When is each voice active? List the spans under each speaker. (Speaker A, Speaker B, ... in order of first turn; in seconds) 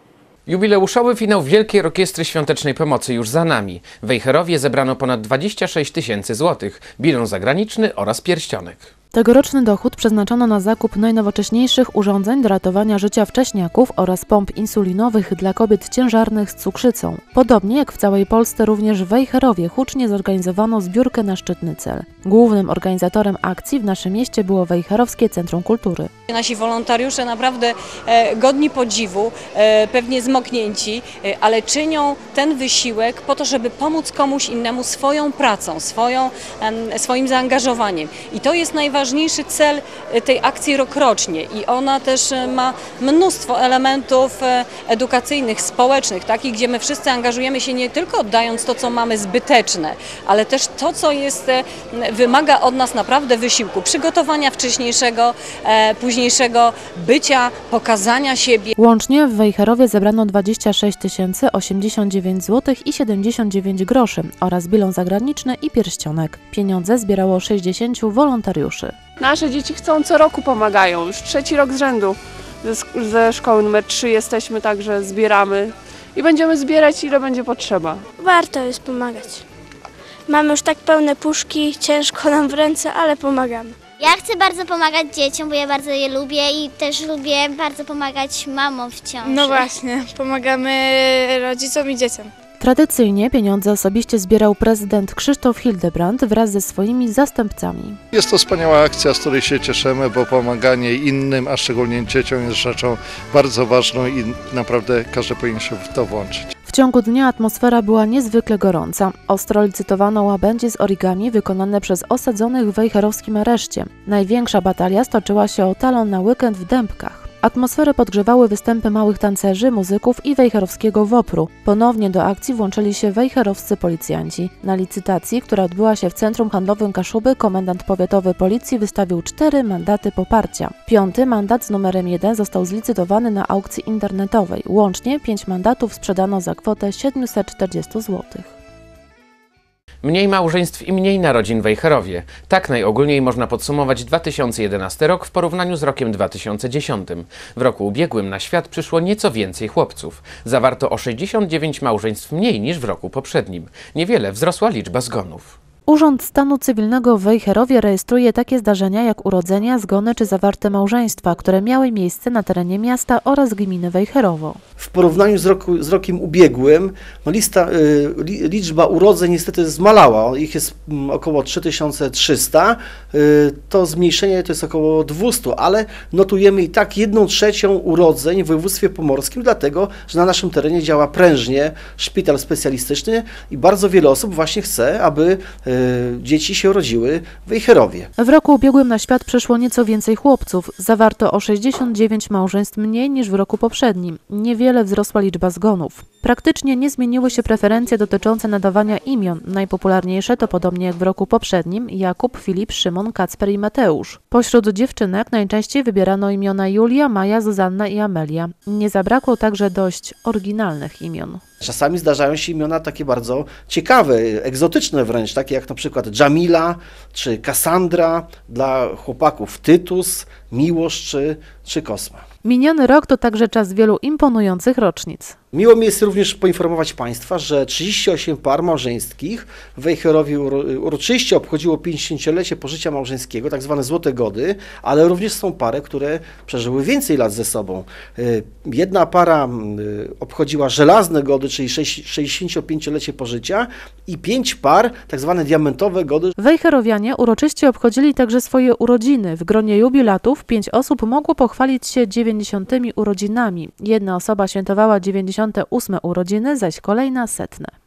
Speaker A: 0.5-8.9, 140.0-155.6
Speaker B: 9.1-26.1, 58.8-68.9, 92.6-98.0, 106.7-138.5, 155.9-164.6, 188.2-211.4, 222.4-225.4, 246.4-257.7
Speaker C: 26.3-58.7
Speaker D: 69.2-78.1
Speaker E: 78.2-79.4, 80.3-83.8, 89.2-92.3
Speaker F: 83.9-89.8
Speaker G: 98.1-106.5
Speaker H: 164.8-188.1, 211.6-222.2, 225.5-246.3